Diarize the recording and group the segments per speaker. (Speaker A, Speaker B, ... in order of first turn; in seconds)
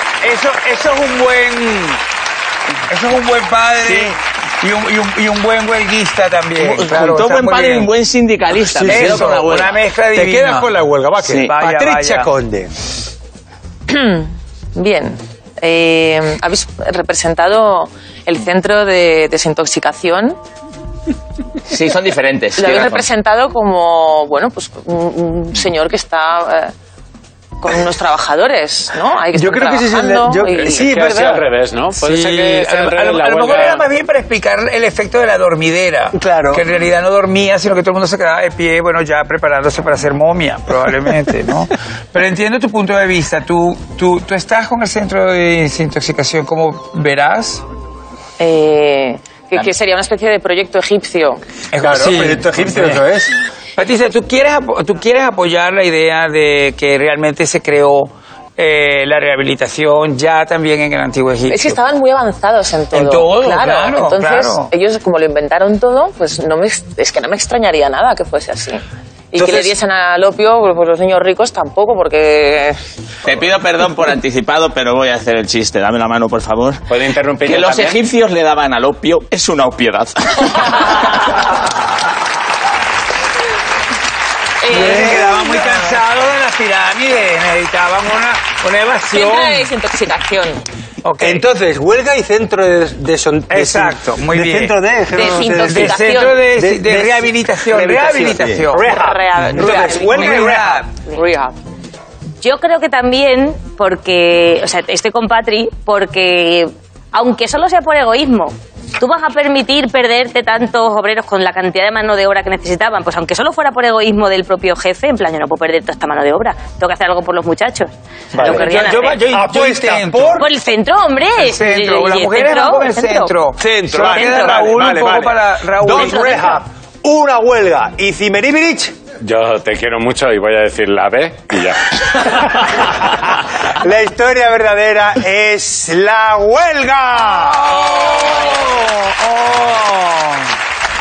Speaker A: 0.2-2.0, 2.9-7.9, 8.8-10.8, 11.4-12.3, 32.0-47.6, 51.7-53.0, 53.8-61.8, 62.9-64.7, 84.7-89.7, 91.0-91.4, 93.5-94.8, 95.6-98.9, 99.5-100.9, 118.4-120.4, 121.4-126.6, 137.4-140.5
Speaker B: 3.8-4.2, 6.6-9.8, 11.2-11.5, 21.7-23.1, 73.2-76.8, 77.4-81.2
Speaker C: 8.7-9.6, 10.1-12.8, 29.3-31.5, 36.1-36.6, 51.8-53.3, 69.4-69.7, 84.7-85.6, 91.2-100.8, 118.3-120.5, 123.6-129.0, 133.6-138.1
Speaker D: 13.9-20.4, 22.6-26.7, 27.6-30.9, 48.4-51.4, 61.5-72.8, 84.6-85.4, 89.1-90.6, 95.1-96.4, 98.7-100.6, 101.1-101.5
Speaker E: 30.5-33.9, 76.9-78.0, 129.2-132.9
Speaker F: 102.4-119.2, 120.4-123.3, 124.0-124.7